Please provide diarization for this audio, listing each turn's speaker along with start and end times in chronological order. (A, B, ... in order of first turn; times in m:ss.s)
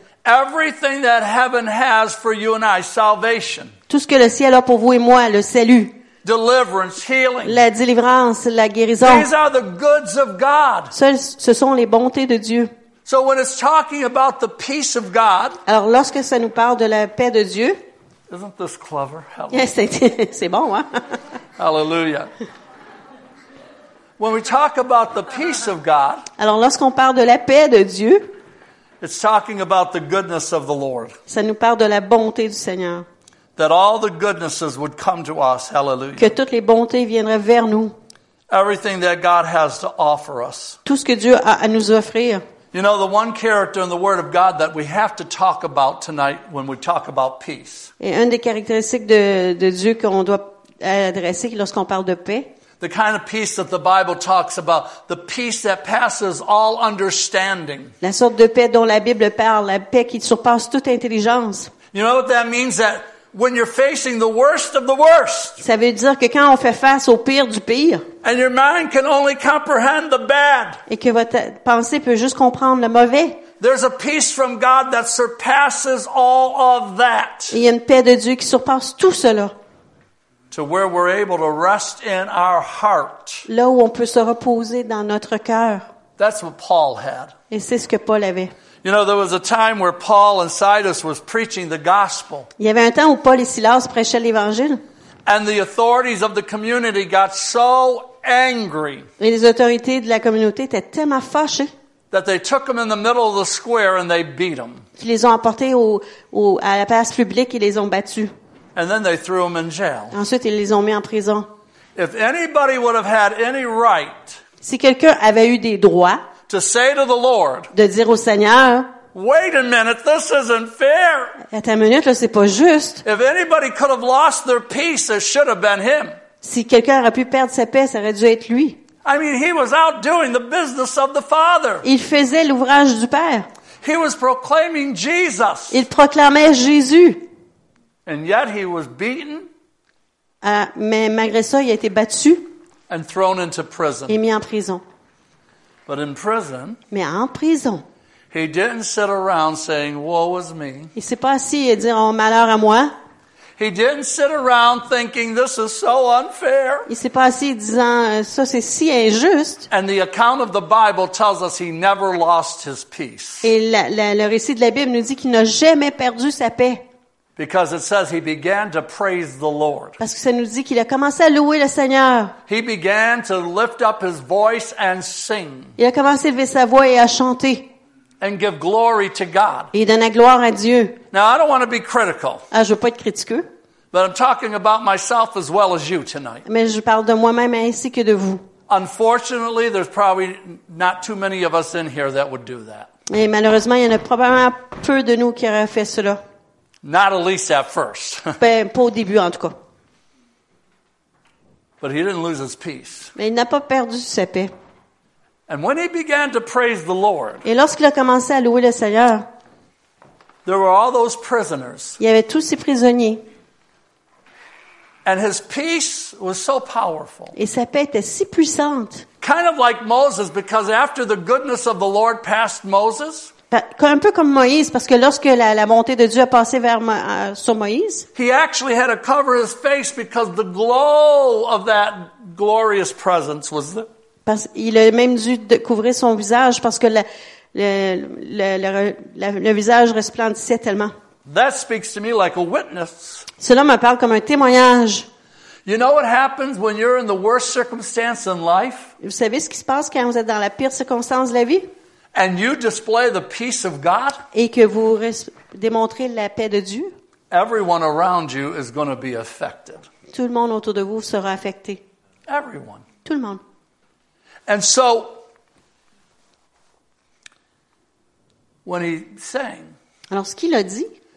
0:00.2-0:03.7 A
0:03.9-0:06.0 B
0:06.2-0:07.6 A
0:07.4-0:09.3 B
0:09.0-0:10.9 A
0:10.9-0:12.7 B
0:13.1-0:15.6 A
0:15.7-0:17.8 B
0:18.3-0:19.7 A
0:19.5-0:21.2 B
0:21.6-0:22.3 A
0:24.2-0:26.3 A
0:26.4-0:28.3 B
0:29.0-0:31.2 A
0:31.3-0:33.1 B
0:33.6-0:36.4 A
0:36.2-0:37.9 B
0:38.5-0:40.8 A
0:40.8-0:42.4 B
0:42.7-0:47.9 A
0:48.0-0:52.5 B
0:52.8-0:57.9 A
0:58.0-1:01.7 B
1:01.9-1:05.6 A
1:05.6-1:08.0 B
1:08.2-1:10.8 A
1:10.9-1:13.4 B
1:13.6-1:17.6 A
1:17.5-1:19.5 B
1:20.5-1:23.5 A
1:23.5-1:25.9 B
1:26.2-1:27.3 A
1:27.5-1:28.5 B
1:28.8-1:32.5 A
1:32.6-1:34.8 B
1:35.3-1:39.1 A
1:39.2-1:41.7 B
1:42.1-1:44.8 A
1:45.0-1:48.3 B
1:48.8-1:50.2 A
1:50.1-1:51.5 B
1:52.0-1:54.4 A
1:54.6-1:56.3 B
1:56.5-1:57.7 A
1:57.7-1:59.0 B
1:59.1-2:01.4 A
2:01.5-2:03.0 B
2:03.0-2:06.2 A
2:06.4-2:08.8 B
2:09.0-2:11.8 A
2:11.8-2:13.5 B
2:13.8-2:15.8 A
2:15.7-2:17.2 B
2:18.1-2:19.5 A
2:20.4-2:22.5 B
2:22.9-2:24.2 A
2:24.1-2:24.8 B
2:25.9-2:26.8 A
2:26.9-2:27.8 B
2:28.3-2:30.9 A
2:31.0-2:32.9 B
2:33.6-2:36.9 A
2:36.9-2:39.7 B
2:39.7-2:43.5 A
2:43.4-2:46.8 B
2:47.4-2:50.0 A
2:50.0-2:52.4 B
2:52.5-2:55.8 A
2:55.8-2:57.7 B
2:58.2-2:59.7 A
2:59.7-3:01.0 B
3:01.1-3:02.5 A
3:02.5-3:03.5 B
3:03.9-3:06.4 A
3:06.4-3:08.4 B
3:08.7-3:12.9 A
3:13.1-3:16.2 B
3:16.8-3:18.4 A
3:18.4-3:19.6 B
3:21.8-3:23.1 A
3:23.2-3:24.5 B
3:25.5-3:27.4 A
3:27.4-3:29.3 B
3:30.4-3:32.0 A
3:32.0-3:33.2 B
3:35.0-3:37.4 A
3:37.3-3:39.1 B
3:39.2-3:43.3 A
3:43.5-3:48.1 B
3:48.2-3:53.9 A
3:54.3-4:00.9 B
4:01.3-4:03.3 A
4:03.4-4:05.1 B
4:05.7-4:08.9 A
4:09.0-4:11.7 B
4:12.1-4:14.2 A
4:14.3-4:16.9 B
4:17.3-4:19.9 A
4:20.1-4:21.8 B
4:22.3-4:22.8 A
4:23.0-4:23.4 B
4:24.5-4:25.2 A
4:28.6-4:29.8 A
4:30.1-4:30.9 B